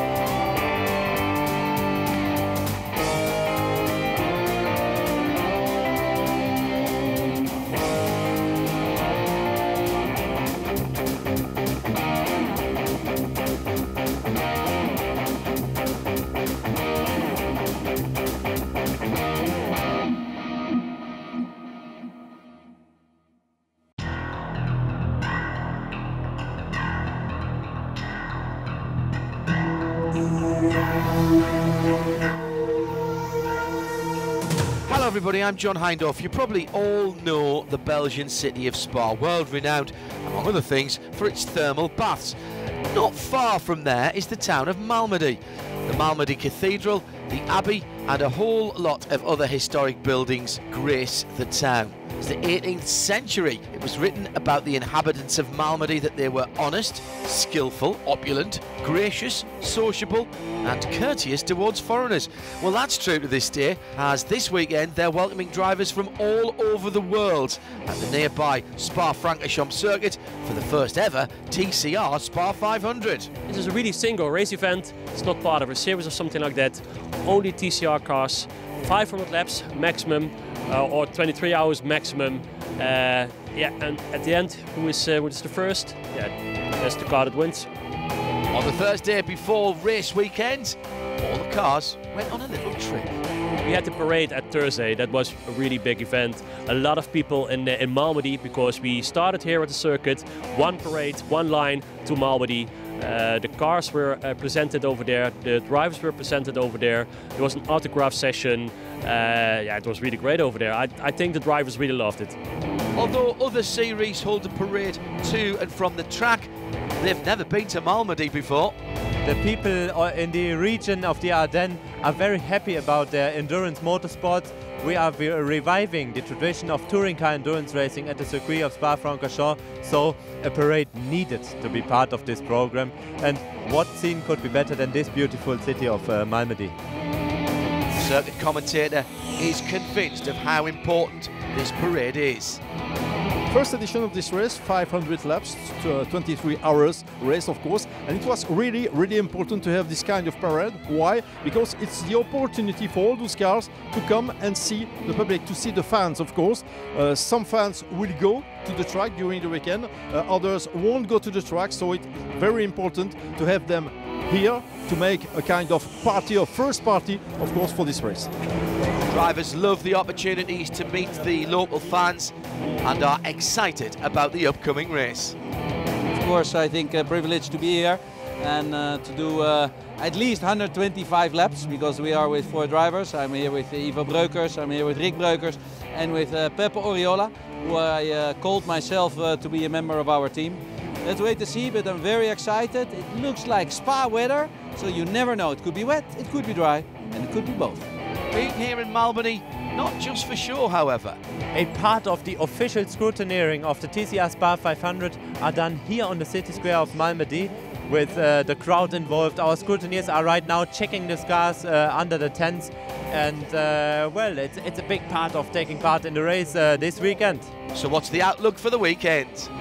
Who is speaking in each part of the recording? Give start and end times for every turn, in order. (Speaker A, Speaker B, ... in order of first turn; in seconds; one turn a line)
Speaker A: 34.9-42.4
Speaker A: 42.9-73.3
Speaker B: 73.5-87.7
Speaker A: 88.5-93.2
Speaker B: 93.7-112.4
Speaker A: 113.0-118.8
Speaker C: 119.2-136.8
Speaker A: 137.9-142.6
Speaker D: 143.5-168.3
Speaker A: 169.1-175.4
Speaker E: 176.2-197.7
Speaker A: 198.3-201.2
Speaker C: 201.6-217.5
Speaker A: 217.7-219.5